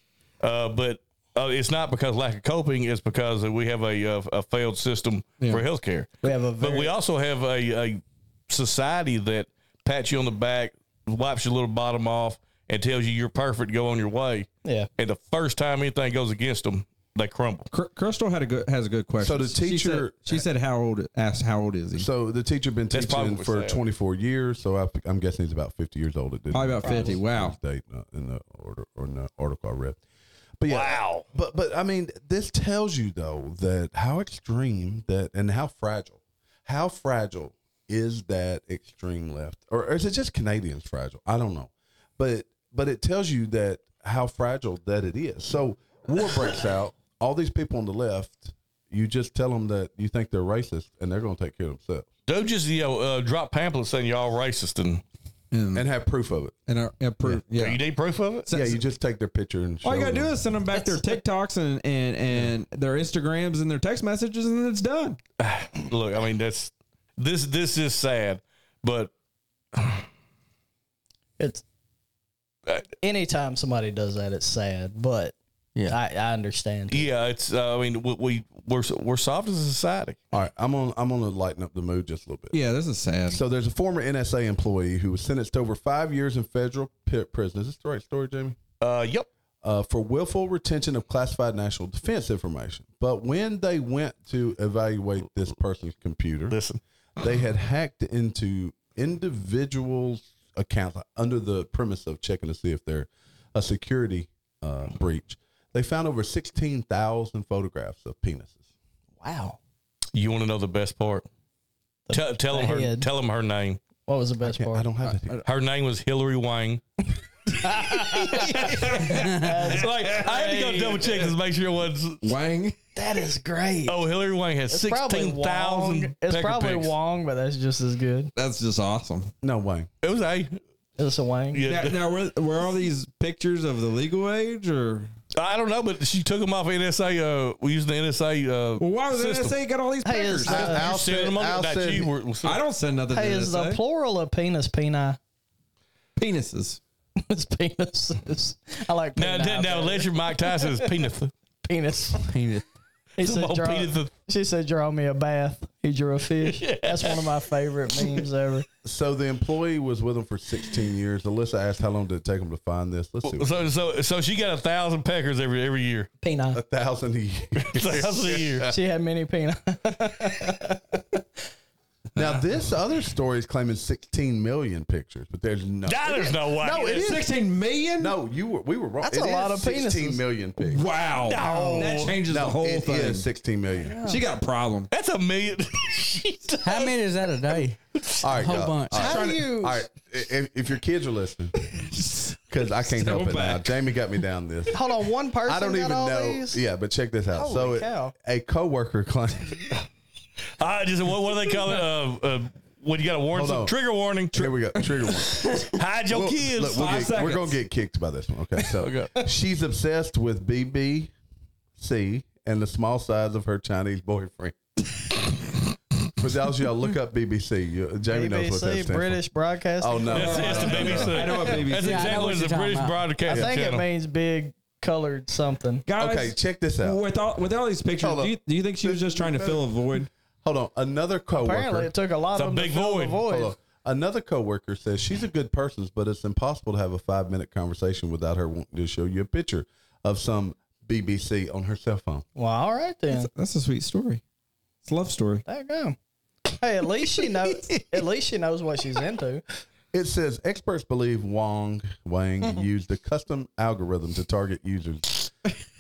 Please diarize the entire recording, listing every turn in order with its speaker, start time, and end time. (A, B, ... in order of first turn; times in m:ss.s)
0:00.4-0:17.7 A
0:06.2-0:06.9 B
0:17.7-0:22.1 C
0:19.2-0:20.4 D
0:22.0-0:30.0 D
0:22.9-0:23.8 A
0:26.5-0:27.6 C
0:26.8-0:27.2 B
0:30.6-0:52.1 D
0:30.7-0:31.3 A
0:52.3-0:55.0 A
0:55.5-0:55.9 C
0:55.7-0:56.6 D
0:56.7-0:57.8 C
0:57.6-0:58.5 A
0:58.4-0:58.8 C
0:58.5-1:00.4 D
0:59.8-1:05.2 C
1:05.4-1:09.1 A
1:09.7-1:10.0 A
1:13.0-1:17.1 B
1:16.9-1:20.2 A
1:20.3-1:22.6 D
1:22.5-1:23.4 C
1:23.3-1:28.6 D
1:28.8-1:29.3 A
1:29.6-1:36.6 D
1:36.5-1:36.8 A
1:37.2-1:48.6 D
1:49.2-1:49.6 B
1:50.1-1:51.3 A
1:52.1-1:53.1 B
1:52.1-1:53.8 A
1:54.0-1:54.9 B
1:54.4-1:55.4 D
1:55.0-1:55.4 C
1:55.4-1:56.8 A
1:57.6-2:01.3 B
1:57.7-2:02.3 A
1:58.4-2:00.5 C
2:02.2-2:02.8 C
2:03.0-2:04.0 B
2:03.9-2:07.0 A
2:04.7-2:08.3 B
2:08.4-2:09.3 C
2:09.4-2:09.9 D
2:10.0-2:10.6 A
2:11.0-2:11.6 B
2:11.5-2:12.0 A
2:11.7-2:15.1 C
2:15.4-2:19.6 A
2:18.8-2:20.8 C
2:20.0-2:20.8 B
2:20.5-2:22.1 D
2:20.6-2:22.6 A
2:22.4-2:23.8 C
2:23.1-2:25.2 B
2:26.2-2:26.8 C
2:27.2-2:31.0 B
2:29.2-2:31.3 A
2:31.6-2:32.2 B
2:32.3-2:32.6 E
2:33.2-2:38.7 B
2:33.2-2:34.1 A
2:36.4-2:38.2 A
2:38.8-2:43.7 D
2:43.2-2:46.1 A
2:46.2-2:46.6 B
2:46.5-2:48.8 D
2:47.6-2:48.7 A
2:48.7-2:51.2 B
2:52.2-2:57.3 D
2:55.9-2:57.1 A
2:56.7-2:58.2 C
2:58.0-3:00.9 D
2:59.0-3:00.2 B
3:00.6-3:03.3 C
3:01.2-3:02.2 A
3:01.3-3:02.1 B
3:02.1-3:04.0 D
3:03.9-3:04.2 B
3:04.0-3:04.9 C
3:04.9-3:06.9 A
3:06.6-3:09.2 E
3:08.2-3:14.9 D
3:08.9-3:09.8 B
3:09.0-3:09.4 C
3:11.9-3:12.2 C
3:12.8-3:13.8 C
3:14.7-3:16.6 B
3:15.5-3:19.8 D
3:17.4-3:18.1 B
3:20.6-3:24.4 A
3:23.3-3:23.8 D
3:24.3-3:25.5 D
3:24.3-3:25.7 C
3:25.5-3:27.0 A
3:26.1-3:31.1 D
3:26.6-3:27.6 C
3:28.8-3:29.1 A
3:31.8-3:34.6 D
3:36.1-3:39.2 D
3:38.1-3:40.8 B
3:39.8-3:41.5 D
3:40.1-3:43.9 A
3:40.1-3:42.3 C
3:41.8-3:43.1 E
3:43.3-3:45.8 B
3:43.3-3:43.6 D
3:45.9-3:50.1 C
3:46.0-3:47.0 D
3:48.0-3:49.7 D
3:50.4-3:51.9 D
3:51.4-3:53.5 B
3:52.3-3:53.2 A
3:53.2-4:02.2 D
4:02.4-4:03.3 B
4:03.1-4:04.2 C
4:04.8-4:05.4 C
4:05.5-4:06.0 B
4:06.5-4:09.4 B
4:09.9-4:15.3 D